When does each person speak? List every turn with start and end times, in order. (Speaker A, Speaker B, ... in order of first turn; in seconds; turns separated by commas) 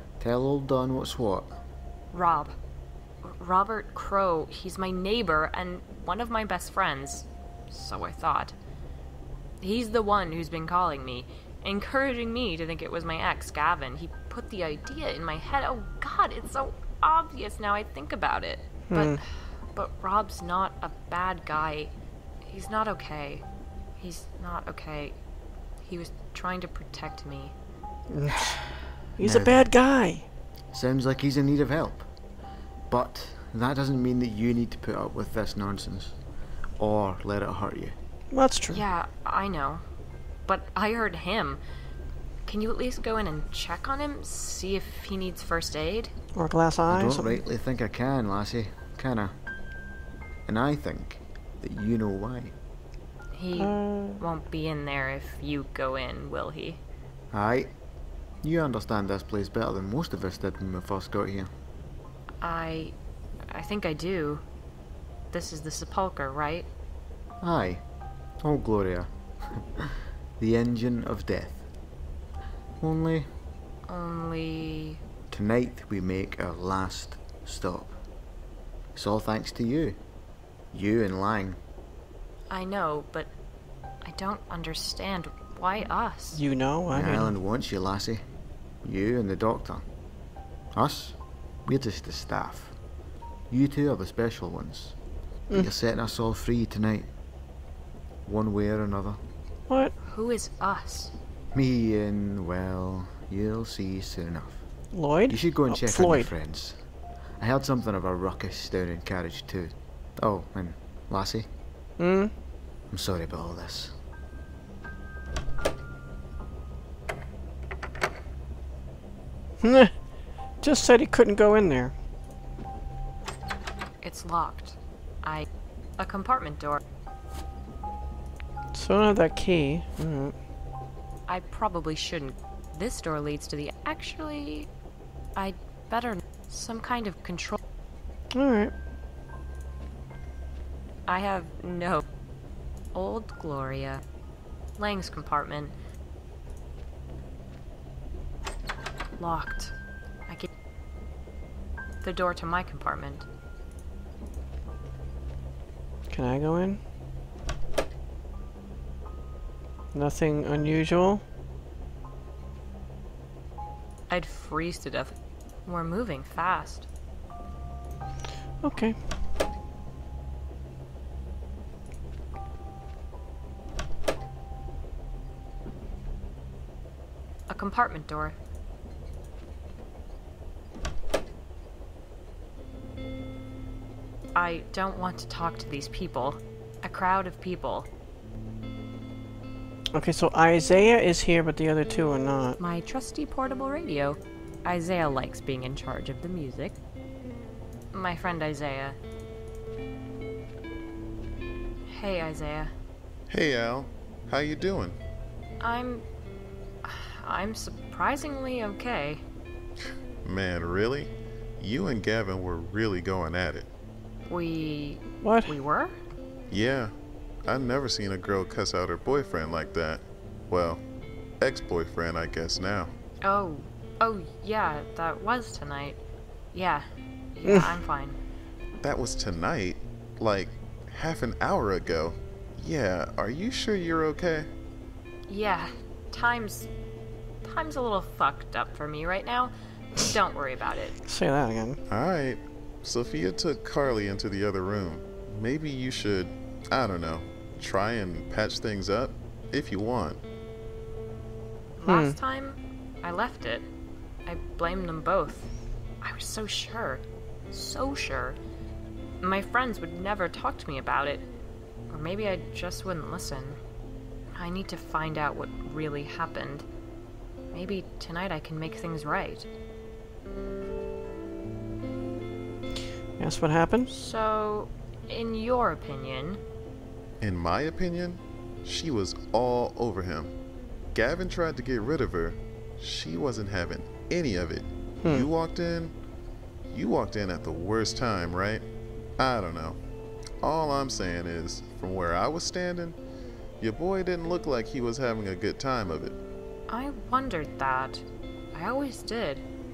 Speaker A: 0.2-1.6, Speaker B: 2.1-2.5, Speaker B: 3.2-8.5, Speaker B: 9.6-21.9, Speaker C: 18.9-19.2, Speaker B: 22.5-23.4, Speaker B: 24.0-25.2, Speaker B: 25.8-27.5, Speaker C: 28.1-30.2, Speaker A: 29.2-29.7, Speaker A: 30.7-32.1, Speaker A: 32.9-36.1, Speaker A: 36.8-38.0, Speaker C: 38.3-38.8, Speaker B: 38.7-39.8, Speaker B: 40.5-41.6, Speaker B: 42.5-46.1, Speaker C: 46.3-47.4, Speaker A: 46.9-49.3, Speaker A: 50.4-52.5, Speaker B: 53.3-56.8, Speaker C: 53.6-54.2, Speaker A: 57.3-57.7, Speaker A: 58.4-61.5, Speaker B: 62.4-62.9, Speaker B: 63.5-64.4, Speaker B: 65.3-66.7, Speaker A: 67.4-67.8, Speaker A: 68.4-71.7, Speaker A: 72.8-73.3, Speaker B: 73.9-75.0, Speaker A: 75.3-78.0, Speaker A: 78.9-80.0, Speaker A: 80.7-81.6, Speaker B: 82.5-83.3, Speaker B: 84.0-86.4, Speaker C: 86.3-87.3, Speaker A: 86.9-88.2, Speaker A: 88.8-89.8, Speaker A: 90.7-92.7, Speaker A: 93.5-95.0, Speaker A: 95.5-97.1, Speaker A: 98.2-99.2, Speaker B: 100.0-101.1, Speaker A: 101.5-104.6, Speaker C: 104.9-106.3, Speaker A: 105.3-106.8, Speaker A: 107.4-111.5, Speaker C: 112.0-112.3, Speaker A: 112.9-114.0, Speaker C: 119.6-119.9, Speaker C: 120.6-121.9, Speaker B: 124.0-125.5, Speaker B: 126.0-126.8, Speaker C: 128.7-130.3, Speaker B: 131.3-134.7, Speaker B: 135.3-137.6, Speaker C: 138.3-138.7, Speaker B: 141.1-142.0, Speaker B: 142.9-144.0, Speaker B: 144.8-145.7, Speaker B: 149.2-149.7, Speaker B: 152.0-153.2, Speaker C: 156.1-156.8, Speaker C: 159.9-161.2, Speaker B: 164.1-165.1, Speaker B: 165.6-166.9, Speaker C: 168.6-168.9, Speaker B: 177.5-178.3, Speaker B: 184.3-187.9, Speaker C: 189.9-192.6, Speaker B: 192.6-196.8, Speaker B: 197.9-199.0, Speaker B: 201.9-202.7, Speaker D: 203.3-205.0, Speaker B: 205.6-206.0, Speaker B: 206.8-209.2, Speaker D: 210.2-213.7, Speaker B: 214.3-216.0, Speaker C: 215.2-215.6, Speaker D: 216.5-216.9, Speaker D: 217.4-220.8, Speaker D: 221.4-222.9, Speaker B: 223.2-226.0, Speaker B: 226.5-228.2, Speaker C: 227.4-227.7, Speaker D: 228.8-234.5, Speaker B: 235.3-236.7, Speaker B: 237.4-240.9, Speaker C: 241.1-241.8, Speaker D: 241.9-250.2, Speaker B: 251.8-253.7, Speaker C: 251.8-252.1, Speaker B: 254.2-255.5, Speaker B: 256.0-258.4, Speaker B: 259.2-261.3, Speaker B: 261.9-263.6, Speaker B: 264.4-266.6, Speaker B: 267.5-269.5, Speaker C: 273.2-273.9, Speaker B: 273.9-276.4, Speaker D: 277.2-280.3, Speaker D: 280.9-285.9, Speaker C: 285.0-285.3, Speaker D: 286.7-288.6, Speaker D: 289.2-289.8, Speaker D: 290.4-293.0, Speaker D: 293.6-296.2, Speaker B: 296.7-299.4